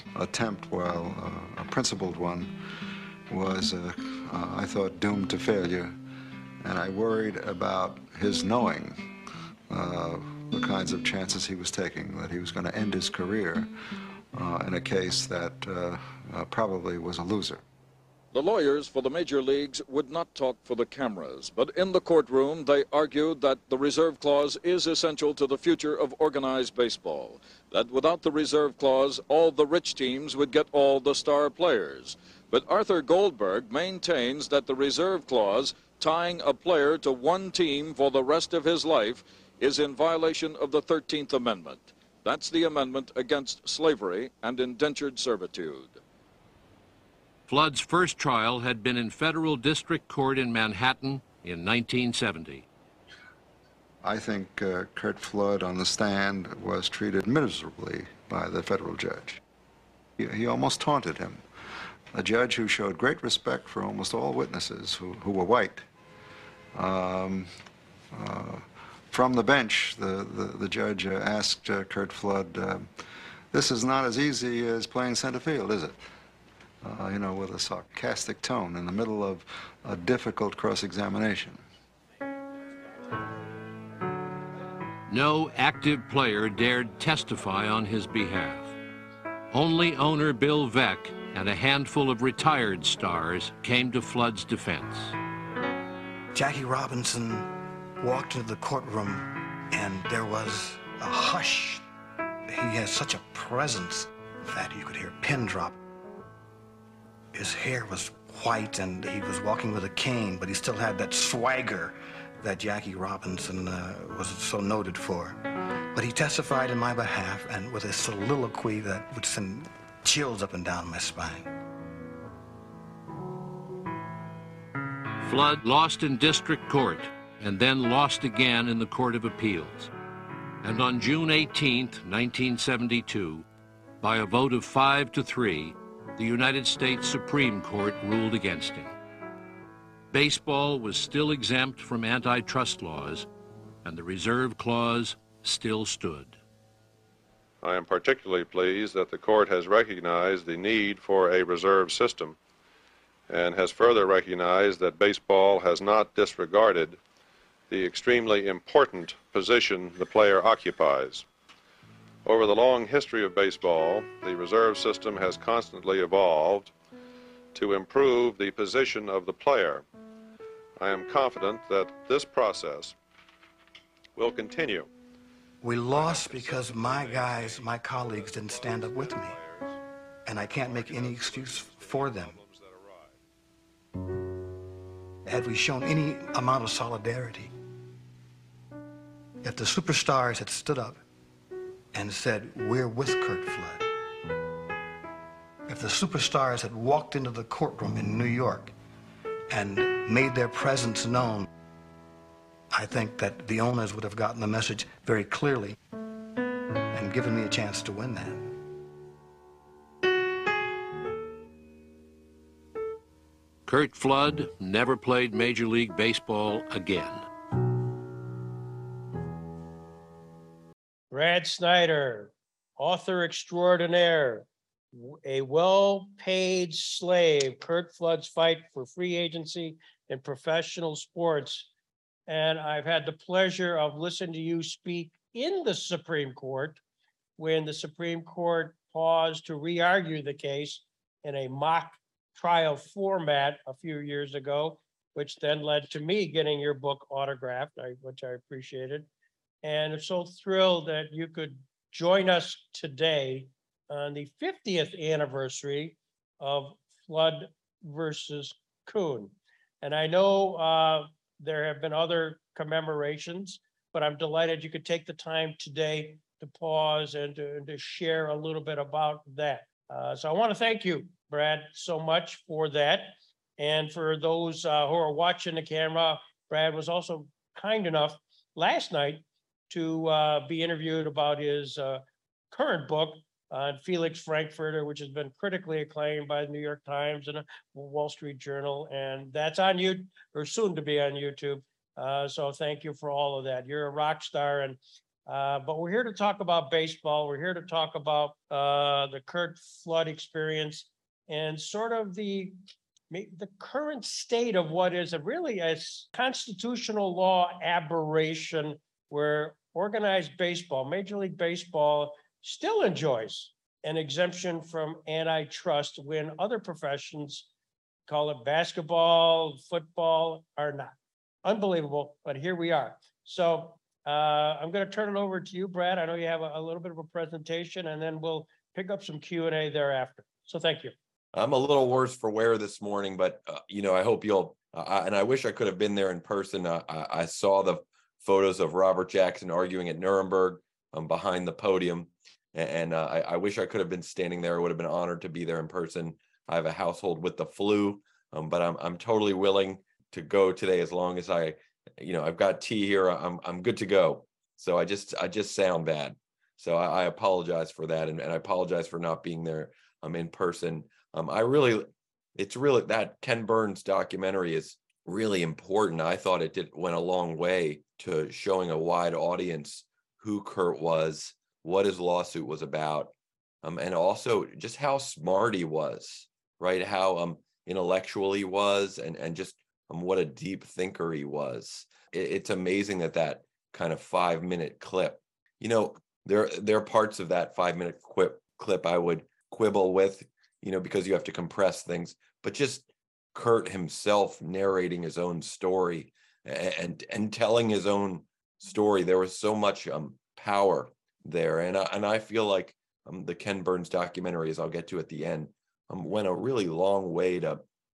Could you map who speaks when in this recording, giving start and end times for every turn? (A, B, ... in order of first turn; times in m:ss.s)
0:00.1-0:02.5 A
0:03.3-0:05.9 A
0:06.6-0:09.2 A
0:09.7-0:13.7 A
0:14.3-0:17.6 A
0:18.3-0:46.0 B
0:47.5-0:52.6 C
0:54.0-0:59.4 A
1:00.2-1:01.4 A
1:02.1-1:05.8 A
1:06.7-1:07.5 A
1:08.1-1:12.9 A
1:13.5-1:16.0 A
1:16.8-1:21.6 A
1:25.1-1:28.8 C
1:29.5-1:35.1 C
1:36.3-1:41.8 D
1:42.5-1:45.8 D
1:47.3-2:01.5 D
2:05.2-2:09.9 C
2:10.6-2:13.4 C
2:14.0-2:18.9 C
2:20.1-2:23.3 C
2:23.8-2:26.4 C
2:27.6-2:32.4 E
2:33.3-2:37.0 E
2:37.7-2:41.2 E
2:42.2-2:46.7 E
2:47.5-2:49.8 E
2:50.8-2:53.0 E
2:54.2-2:54.9 E
2:55.6-2:59.4 D
2:55.8-2:59.8 E
3:00.2-3:02.4 D
3:00.4-3:03.2 E
3:05.2-3:07.5 D
3:09.4-3:11.0 D
3:11.9-3:13.9 D
3:15.7-3:18.7 D
3:19.5-3:21.5 D
3:22.7-3:25.8 D
3:26.9-3:28.6 D
3:33.6-3:37.2 C
3:41.1-3:51.7 F
3:52.3-3:56.8 F
3:57.4-4:09.1 F
4:09.6-5:02.6 F
5:03.1-5:17.5 F
5:18.1-5:20.9 F
5:21.4-5:30.9 F
5:31.3-6:47.6 G